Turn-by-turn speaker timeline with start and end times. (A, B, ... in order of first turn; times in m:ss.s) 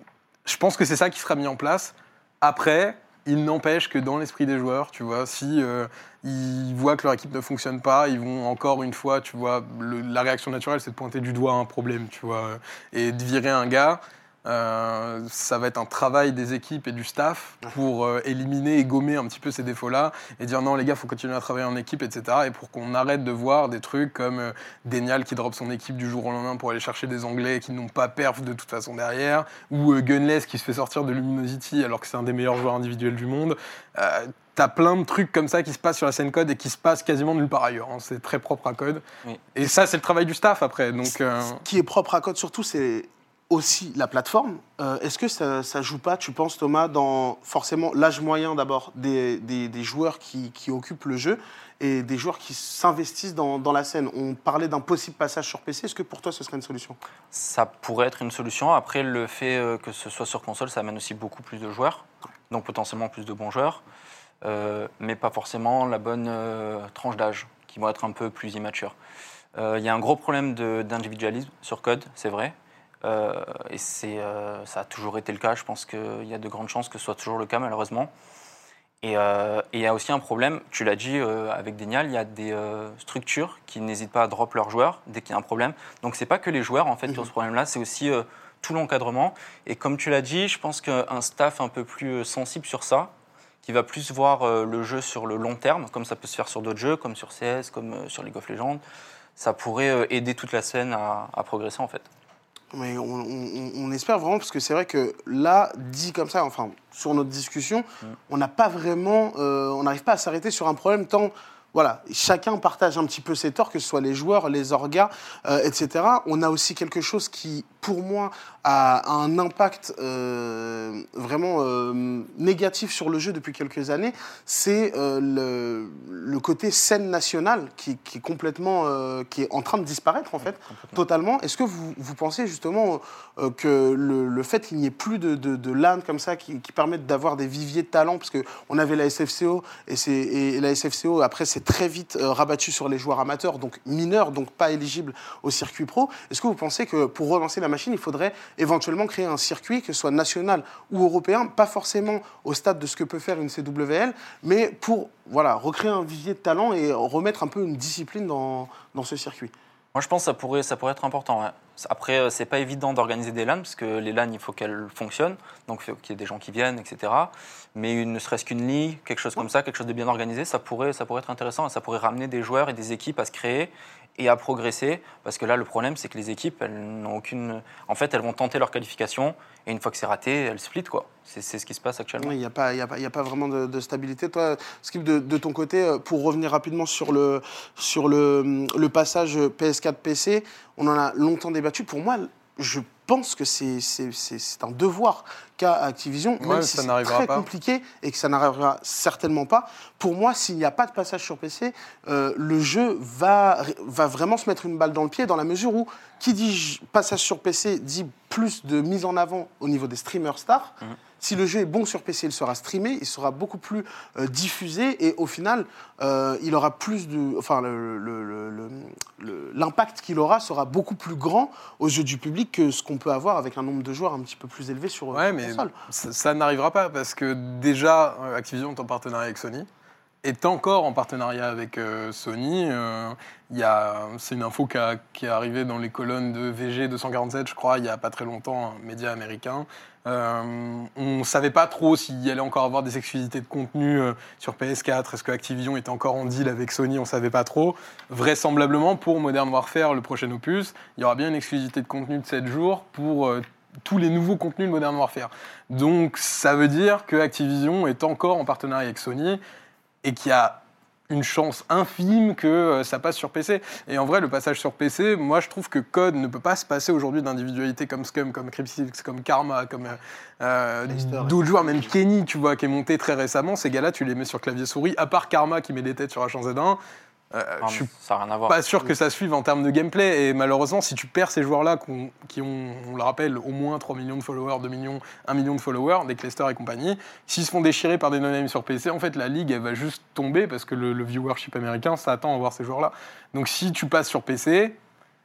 0:00.5-0:39.0 A
0:39.6-0:41.6 A
0:41.5-0:57.0 B
0:57.3-1:03.8 C
1:04.4-1:09.0 C
1:09.6-1:18.1 C
1:19.0-1:33.1 C
1:33.6-1:38.8 C
1:39.4-1:42.1 C
1:42.7-2:39.5 B
2:10.4-2:11.0 C
2:39.9-3:02.4 C
3:02.2-3:45.7 B
3:16.4-3:17.5 A
3:45.1-3:49.7 A
3:50.2-4:19.4 A
4:20.0-4:36.8 A
4:30.9-4:31.9 B
4:37.3-4:37.9 A
4:37.6-4:38.6 C
4:38.5-4:54.8 A